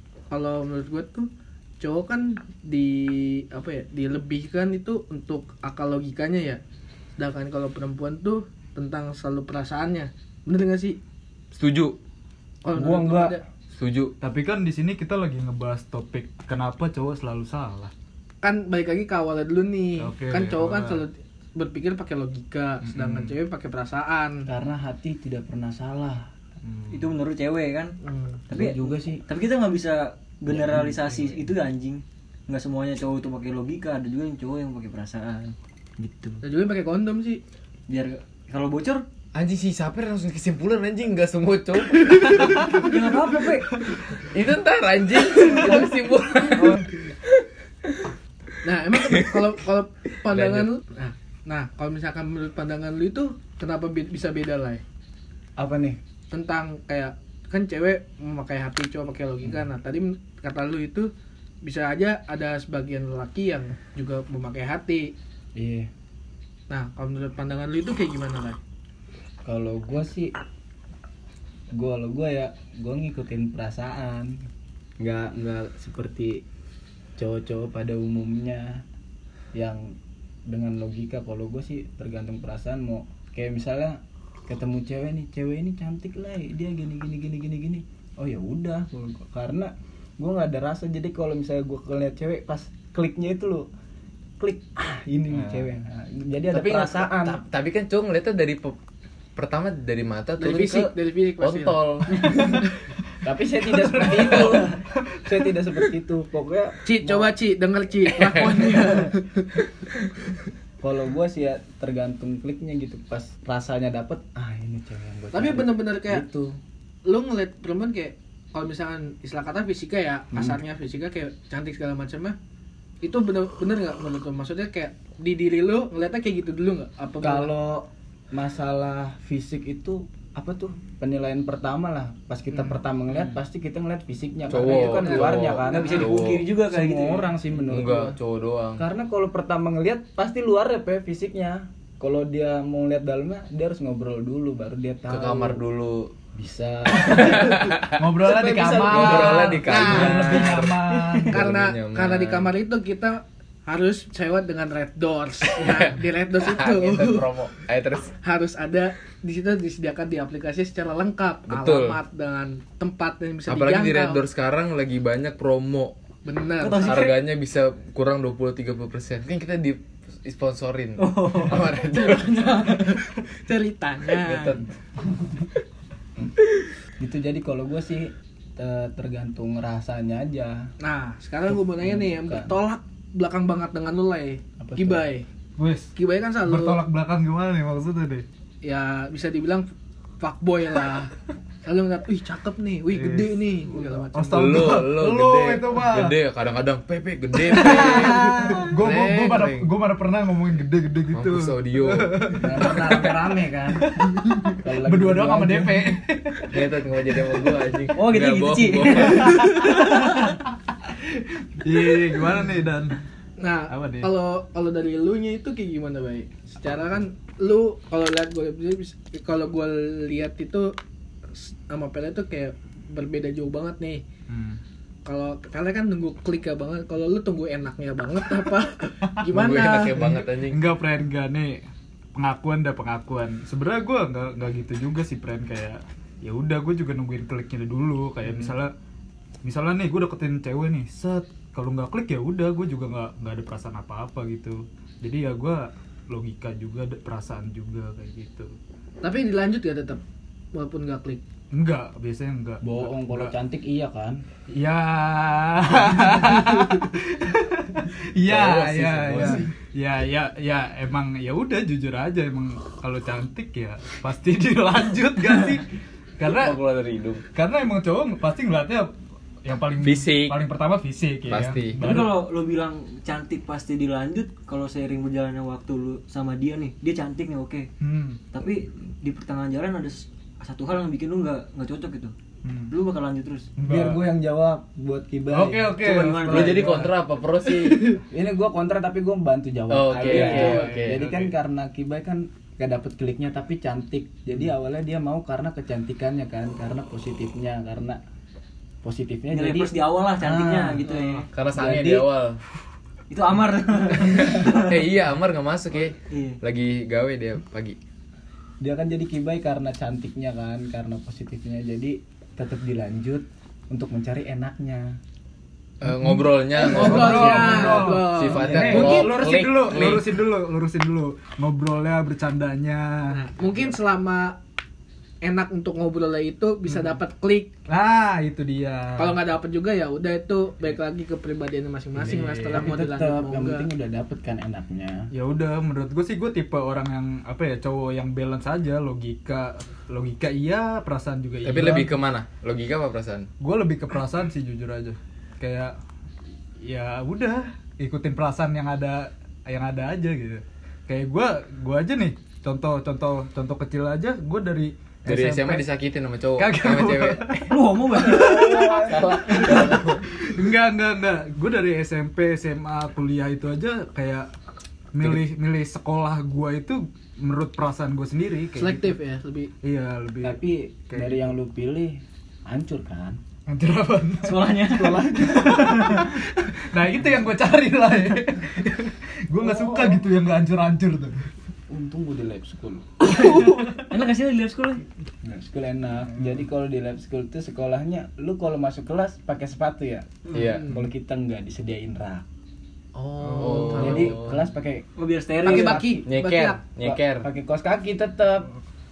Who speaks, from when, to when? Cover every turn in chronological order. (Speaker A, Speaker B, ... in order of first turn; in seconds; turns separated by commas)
Speaker A: 0.3-6.6, Speaker A: 7.2-11.0, Speaker B: 11.5-12.0, Speaker A: 12.6-13.4, Speaker C: 12.7-13.4, Speaker B: 13.7-14.1, Speaker D: 14.2-17.9, Speaker A: 18.4-24.5, Speaker D: 20.0-21.0, Speaker D: 22.8-23.4, Speaker C: 24.5-26.3, Speaker D: 26.6-27.1, Speaker E: 26.9-28.0, Speaker A: 28.0-28.4, Speaker E: 28.5-36.4, Speaker C: 28.5-29.2, Speaker A: 36.4-37.4, Speaker E: 37.9-39.0, Speaker B: 39.3-42.9, Speaker E: 42.4-43.8, Speaker B: 44.2-47.9, Speaker A: 48.6-54.8, Speaker B: 49.1-49.5, Speaker B: 50.3-50.7, Speaker C: 55.6-56.0, Speaker A: 56.3-61.1, Speaker A: 61.6-65.1, Speaker C: 65.5-65.9, Speaker A: 66.7-68.6, Speaker C: 69.4-70.3, Speaker C: 71.7-74.4, Speaker C: 75.0-76.4, Speaker C: 77.2-78.8, Speaker C: 79.5-80.0, Speaker C: 80.5-93.7, Speaker C: 94.4-97.4, Speaker D: 95.3-95.6, Speaker B: 96.5-98.8, Speaker B: 99.3-102.3, Speaker A: 100.4-101.8, Speaker C: 102.2-107.3, Speaker D: 103.7-105.3, Speaker A: 106.8-109.6, Speaker B: 108.1-108.8, Speaker C: 110.8-116.6, Speaker A: 115.3-116.2, Speaker A: 117.0-122.3, Speaker C: 120.3-120.6, Speaker A: 123.0-127.5, Speaker C: 127.2-138.2, Speaker B: 134.5-136.5, Speaker A: 134.6-135.6, Speaker E: 135.6-137.3, Speaker B: 137.6-138.8, Speaker C: 138.8-145.6, Speaker B: 145.1-146.1, Speaker C: 146.3-149.6, Speaker B: 147.0-148.0, Speaker D: 148.0-151.4, Speaker B: 148.7-152.5, Speaker A: 149.0-150.5, Speaker A: 151.3-157.4, Speaker B: 155.5-158.1, Speaker A: 158.2-164.2, Speaker B: 161.5-162.0, Speaker B: 163.5-165.9, Speaker A: 166.2-167.0, Speaker E: 166.6-167.3, Speaker B: 166.8-172.8, Speaker E: 171.0-171.8, Speaker A: 171.6-174.6, Speaker B: 174.1-174.7, Speaker C: 177.0-180.7, Speaker A: 180.8-185.3, Speaker C: 181.5-182.6, Speaker C: 184.6-185.1, Speaker D: 185.6-188.2, Speaker A: 185.9-186.8, Speaker A: 188.6-189.7, Speaker A: 190.2-191.1, Speaker A: 191.6-194.5, Speaker D: 192.9-196.2, Speaker B: 194.3-199.7, Speaker D: 197.5-202.9, Speaker A: 197.6-198.2, Speaker B: 201.1-203.2, Speaker C: 202.3-205.9, Speaker D: 203.8-206.7, Speaker B: 206.5-209.5, Speaker E: 207.9-210.3, Speaker D: 209.1-213.0, Speaker A: 213.4-220.8, Speaker D: 213.7-214.1, Speaker A: 221.3-224.0, Speaker D: 224.3-224.6, Speaker A: 225.0-230.0, Speaker D: 229.1-231.6, Speaker B: 229.2-230.6, Speaker D: 232.1-238.7, Speaker D: 239.4-248.5, Speaker A: 249.0-250.0, Speaker A: 250.5-251.2, Speaker D: 251.5-253.3, Speaker C: 252.6-254.2, Speaker D: 254.5-265.7, Speaker B: 258.2-259.5, Speaker C: 259.0-259.4, Speaker D: 266.2-266.6, Speaker B: 266.2-267.2, Speaker D: 267.3-268.9, Speaker D: 269.4-272.2, Speaker B: 269.8-270.4, Speaker B: 271.3-271.8, Speaker E: 271.8-277.7, Speaker D: 277.8-278.2, Speaker E: 278.3-282.1, Speaker D: 282.4-282.7, Speaker E: 282.7-283.5, Speaker D: 283.6-284.0, Speaker C: 283.6-285.8, Speaker D: 285.3-288.0, Speaker E: 285.8-286.9, Speaker B: 285.8-288.0, Speaker C: 288.1-298.0, Speaker B: 289.7-291.0, Speaker D: 290.1-291.3, Speaker A: 290.1-290.7, Speaker C: 298.8-300.9, Speaker E: 299.3-301.3, Speaker B: 301.3-302.4, Speaker C: 301.5-302.1, Speaker E: 303.1-304.9, Speaker B: 303.9-307.8, Speaker E: 306.1-306.4, Speaker C: 308.6-315.0, Speaker B: 315.8-320.2, Speaker D: 315.8-323.2, Speaker A: 316.5-319.2, Speaker C: 316.7-317.2, Speaker C: 318.3-319.3, Speaker A: 323.1-324.4, Speaker A: 325.2-327.5, Speaker D: 327.7-329.2, Speaker A: 329.0-333.7, Speaker D: 332.0-332.8, Speaker C: 332.5-335.1, Speaker D: 335.1-341.9, Speaker B: 341.4-343.3, Speaker D: 343.4-345.8, Speaker D: 346.6-355.6, Speaker B: 355.1-357.4, Speaker D: 356.4-364.3, Speaker E: 357.5-359.6, Speaker C: 358.0-359.7, Speaker B: 358.9-360.0, Speaker D: 364.9-368.9, Speaker A: 368.6-369.5, Speaker D: 369.6-371.3, Speaker C: 370.2-373.2, Speaker D: 373.5-381.3, Speaker E: 374.2-376.0, Speaker C: 374.7-376.0, Speaker C: 379.4-380.1, Speaker C: 381.7-382.9, Speaker E: 383.0-384.8, Speaker D: 383.1-383.9, Speaker C: 385.2-392.2, Speaker A: 390.3-390.8, Speaker B: 390.3-390.7, Speaker A: 392.9-394.2, Speaker B: 393.4-394.4, Speaker C: 393.6-394.9, Speaker E: 394.9-395.9, Speaker A: 395.4-396.6, Speaker C: 395.5-396.0, Speaker B: 395.5-397.3, Speaker C: 396.8-398.5